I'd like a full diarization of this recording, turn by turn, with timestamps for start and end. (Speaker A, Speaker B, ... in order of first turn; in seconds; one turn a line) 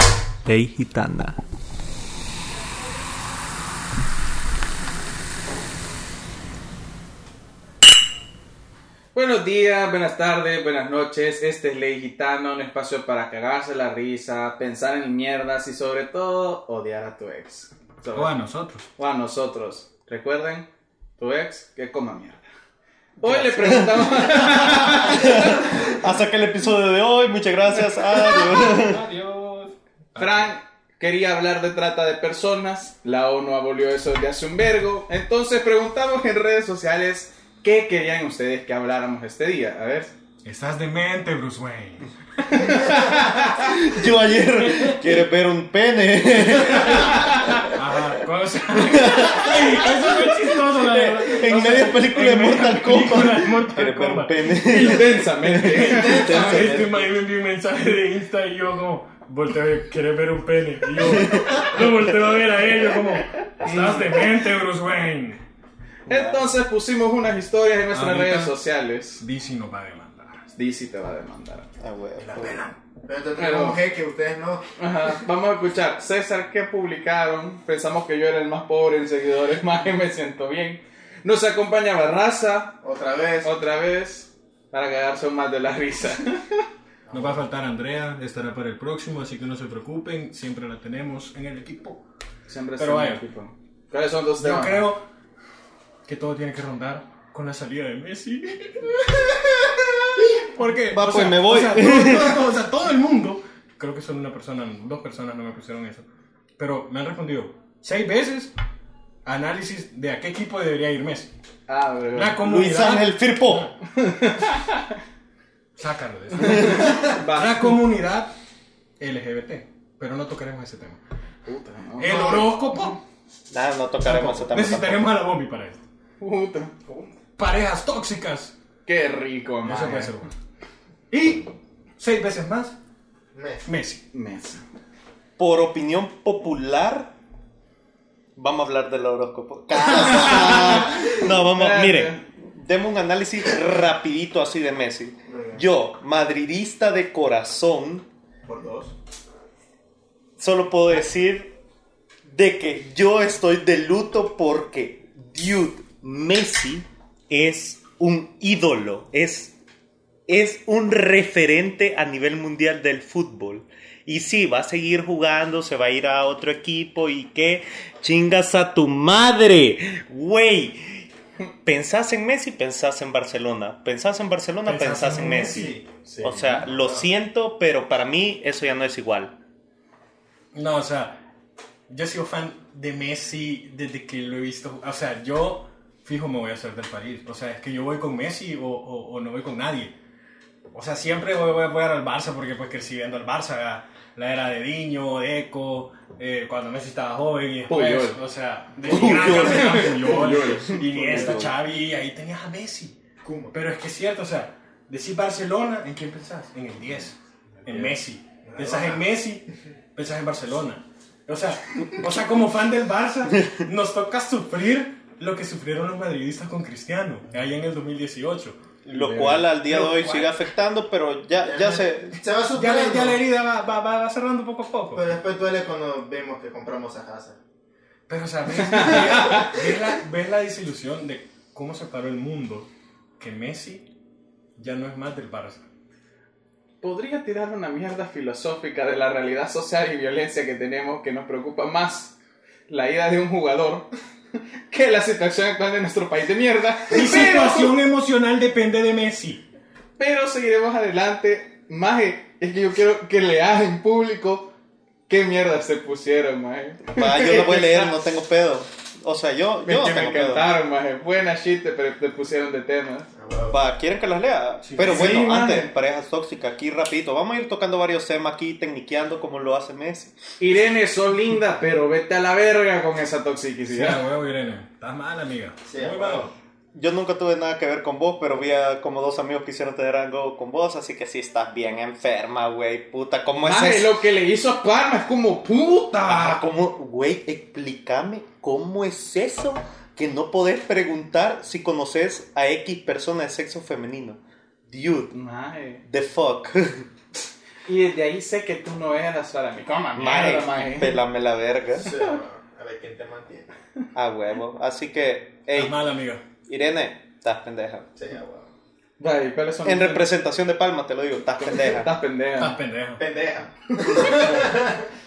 Speaker A: 0.4-1.4
Speaker B: 9.1-18.3
Speaker C: 18.1-18.9
Speaker B: 19.0-22.4
Speaker B: 23.2-25.7
Speaker A: 23.2-29.0
Speaker C: 28.1-30.5
Speaker B: 30.2-40.1
Speaker C: 40.5-42.1
Speaker B: 42.4-43.8
Speaker A: 43.4-47.7
Speaker C: 44.7-45.0
Speaker B: 47.1-47.6
Speaker C: 47.7-54.9
Speaker A: 48.8-57.0
Speaker B: 54.6-56.5
Speaker C: 55.4-65.4
Speaker A: 61.0-62.1
Speaker B: 63.6-64.2
Speaker A: 66.1-66.4
Speaker B: 66.1-69.2
Speaker C: 67.9-68.5
Speaker C: 69.2-70.5
Speaker B: 70.5-71.7
Speaker A: 71.8-72.6
Speaker C: 72.2-72.8
Speaker D: 73.0-74.6
Speaker B: 73.4-73.8
Speaker B: 74.8-82.8
Speaker D: 82.8-83.5
Speaker B: 83.4-86.7
Speaker D: 87.1-87.4
Speaker C: 87.1-92.0
Speaker B: 92.5-94.9
Speaker C: 92.8-93.2
Speaker C: 94.4-95.0
Speaker C: 96.1-99.4
Speaker C: 100.2-106.1
Speaker A: 100.9-102.5
Speaker C: 106.6-108.5
Speaker C: 109.2-111.3
Speaker B: 111.7-112.4
Speaker C: 112.2-113.7
Speaker A: 112.4-113.7
Speaker B: 113.9-114.9
Speaker C: 115.8-118.3
Speaker B: 116.4-117.7
Speaker C: 119.0-121.0
Speaker B: 121.5-122.5
Speaker C: 122.0-123.0
Speaker A: 123.5-125.1
Speaker C: 124.0-125.8
Speaker B: 126.2-127.2
Speaker C: 127.4-128.5
Speaker B: 128.9-130.2
Speaker C: 129.7-130.3
Speaker C: 131.1-131.5
Speaker C: 132.0-132.8
Speaker D: 133.3-133.6
Speaker C: 133.7-134.0
Speaker B: 134.1-134.6
Speaker A: 135.4-137.1
Speaker A: 138.4-148.1
Speaker D: 140.2-140.6
Speaker B: 140.2-142.2
Speaker D: 145.3-145.6
Speaker D: 148.4-148.9
Speaker A: 150.4-151.5
Speaker A: 152.2-159.6
Speaker A: 160.3-171.1
Speaker A: 171.6-179.4
Speaker C: 174.7-175.8
Speaker D: 175.4-175.8
Speaker B: 176.1-176.6
Speaker D: 176.4-177.1
Speaker C: 180.5-181.2
Speaker C: 181.9-189.9
Speaker C: 190.7-203.0
Speaker B: 197.7-198.2
Speaker A: 198.8-200.2
Speaker B: 198.9-201.4
Speaker D: 201.1-201.4
Speaker A: 201.1-201.5
Speaker D: 203.2-203.5
Speaker C: 203.5-218.6
Speaker D: 208.4-209.0
Speaker A: 218.8-222.2
Speaker B: 218.9-219.5
Speaker C: 219.7-220.3
Speaker D: 221.4-223.2
Speaker C: 222.5-225.1
Speaker D: 224.9-227.4
Speaker C: 228.1-233.9
Speaker B: 228.7-229.5
Speaker C: 234.6-235.7
Speaker B: 236.8-242.1
Speaker B: 242.7-243.9
Speaker B: 244.7-247.7
Speaker C: 246.9-249.4
Speaker B: 250.0-254.5
Speaker B: 255.1-257.9
Speaker A: 256.9-260.5
Speaker B: 259.6-263.1
Speaker D: 263.2-263.6
Speaker A: 263.5-270.2
Speaker C: 264.6-265.3
Speaker B: 264.8-265.7
Speaker B: 270.4-274.0
Speaker C: 273.7-276.3
Speaker D: 275.7-276.3
Speaker A: 276.7-284.0
Speaker B: 283.4-286.4
Speaker A: 286.1-295.1
Speaker B: 295.1-295.8
Speaker A: 295.9-296.9
Speaker B: 297.7-301.0
Speaker A: 299.9-301.9
Speaker D: 301.8-303.5
Speaker A: 303.9-305.8
Speaker C: 305.5-306.2
Speaker A: 306.5-307.9
Speaker D: 308.0-308.5
Speaker B: 309.0-310.1
Speaker A: 309.6-311.9
Speaker B: 311.4-312.6
Speaker C: 312.4-313.0
Speaker D: 313.0-314.8